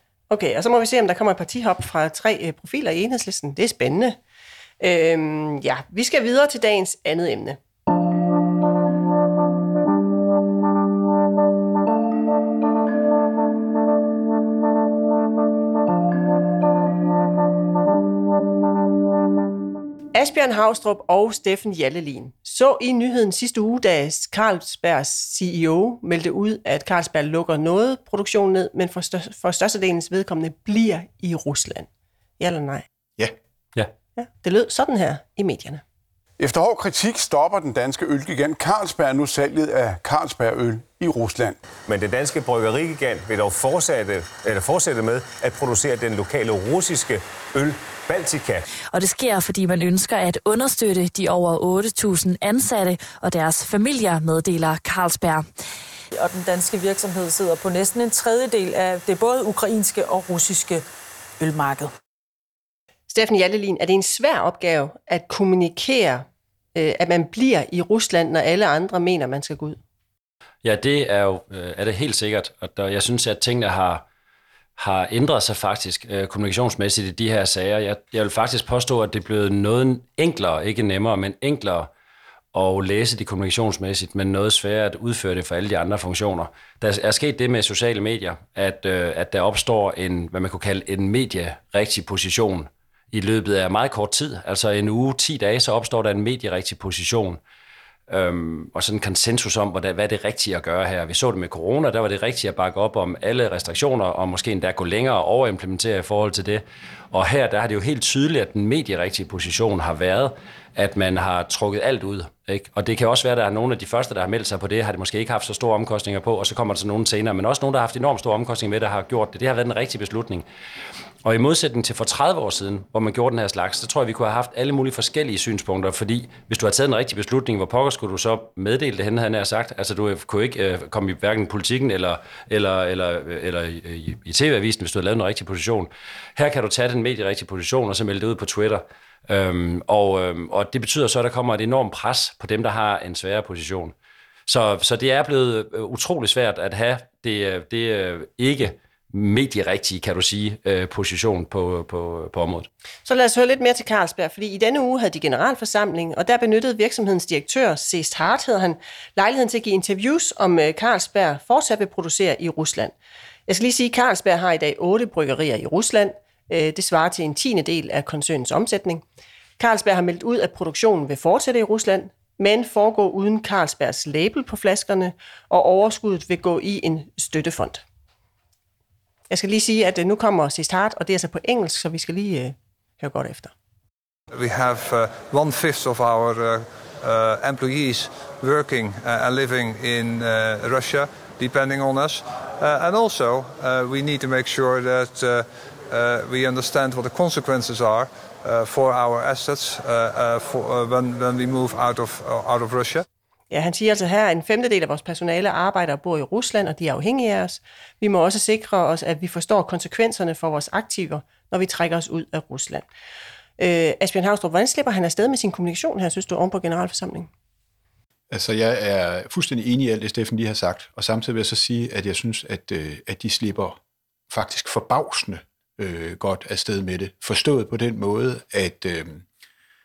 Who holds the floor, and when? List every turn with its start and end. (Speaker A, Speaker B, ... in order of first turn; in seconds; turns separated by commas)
Speaker A: 0.3-4.2, Speaker A: 4.8-7.6, Speaker A: 20.1-31.9, Speaker A: 32.4-32.9, Speaker A: 34.2-35.8, Speaker B: 36.4-41.6, Speaker C: 41.9-48.6, Speaker D: 48.9-55.5, Speaker E: 56.1-60.8, Speaker E: 61.4-61.9, Speaker A: 63.1-69.8, Speaker F: 70.6-74.0, Speaker F: 74.8-81.9, Speaker F: 82.5-97.4, Speaker F: 98.1-120.5, Speaker F: 121.2-143.9, Speaker F: 144.5-152.7, Speaker A: 153.1-162.9, Speaker A: 163.5-169.0, Speaker A: 169.6-177.8, Speaker A: 179.3-183.5, Speaker G: 184.3-203.1, Speaker A: 203.5-212.8, Speaker A: 213.6-217.3, Speaker H: 218.3-229.2